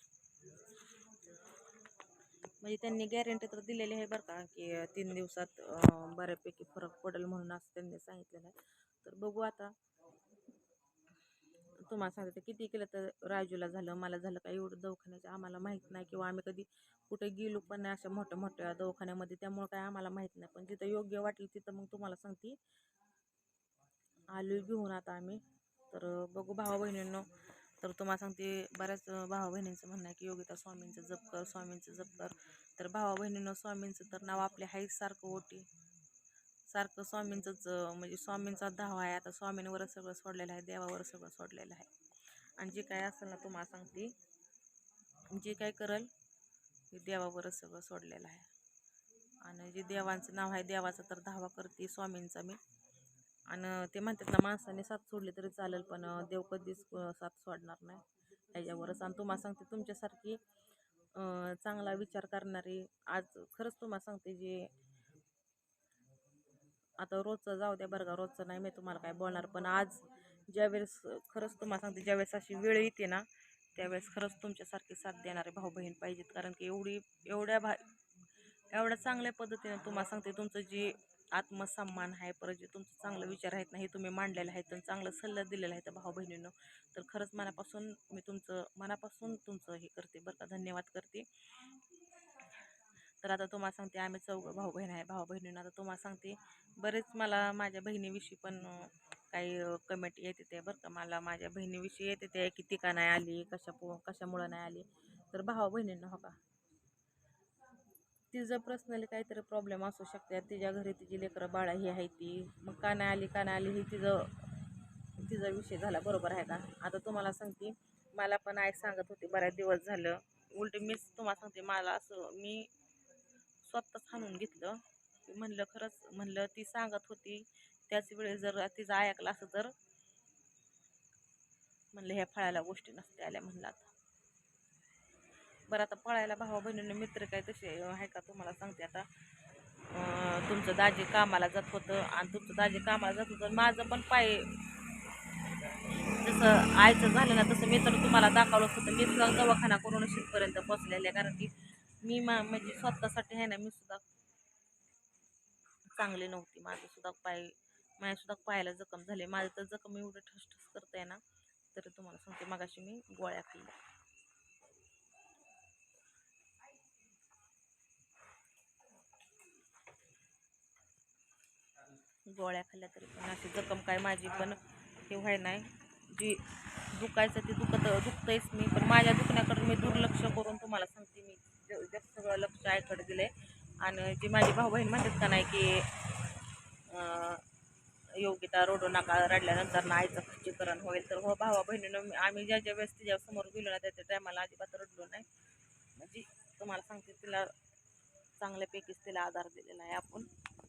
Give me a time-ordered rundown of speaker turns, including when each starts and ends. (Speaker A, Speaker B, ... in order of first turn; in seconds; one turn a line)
Speaker A: 2.6-9.7
Speaker A: 11.8-22.6
Speaker A: 24.3-25.4
Speaker A: 25.9-27.3
Speaker A: 27.8-35.6
Speaker A: 36.7-41.9
Speaker A: 42.6-44.1
Speaker A: 45.3-46.1
Speaker A: 46.9-48.5
Speaker A: 49.4-52.6
Speaker A: 53.5-60.4
Speaker A: 61.1-64.7
Speaker A: 67.0-77.8
Speaker A: 78.7-91.3
Speaker A: 93.2-106.4
Speaker A: 108.3-114.6
Speaker A: 115.2-122.7
Speaker A: 123.6-129.7
Speaker A: 131.9-133.9
Speaker A: 135.7-139.1
Speaker A: 139.9-144.5
Speaker A: 146.2-154.0
Speaker A: 155.9-161.2
Speaker A: 161.7-163.7
Speaker A: 172.3-185.9
Speaker A: 186.9-187.4
Speaker A: 188.2-195.3
Speaker A: 195.9-197.5
Speaker A: 198.4-200.3